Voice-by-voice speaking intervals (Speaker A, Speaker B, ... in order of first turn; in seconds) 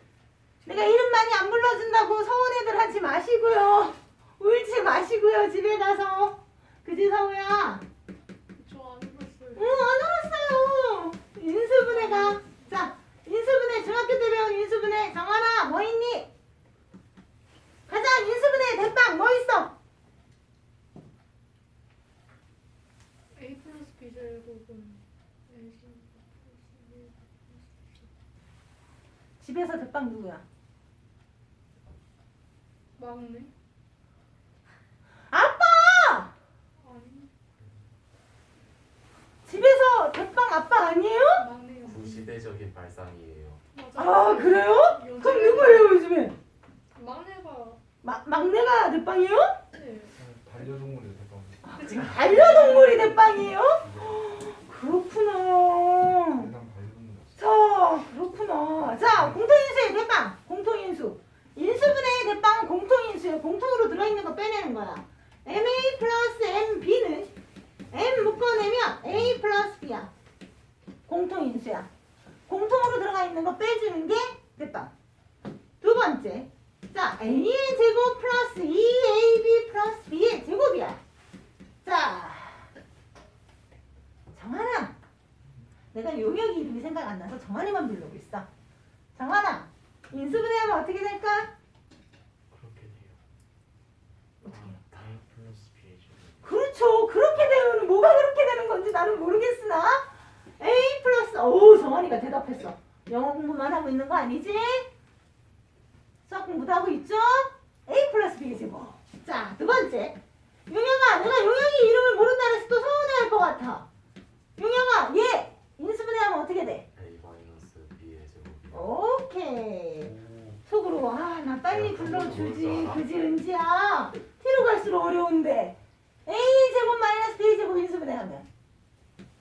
Speaker A: 0.6-7.8, 9.5-16.3, 17.9-19.7, 29.4-30.4, 35.3-36.3, 39.4-41.5, 43.9-46.4, 48.0-49.6, 51.7-56.5, 57.4-67.3, 67.9-70.1, 71.1-71.9, 72.5-74.9, 75.8-81.0, 81.8-82.7, 84.3-85.0, 85.9-88.5, 89.2-91.5, 94.4-94.8, 96.4-104.9, 106.2-113.9, 114.6-116.9, 118.7-120.1, 120.7-128.5
Speaker B: 8.5-9.8, 23.3-28.1, 33.0-33.5, 36.8-37.3, 41.4-42.3, 43.7-45.9, 46.9-47.8, 49.7-50.1
Speaker C: 41.9-43.6, 92.5-93.2, 94.5-96.5, 116.9-118.9, 120.2-120.6, 121.7-123.0
Speaker D: 50.1-54.2, 56.3-57.4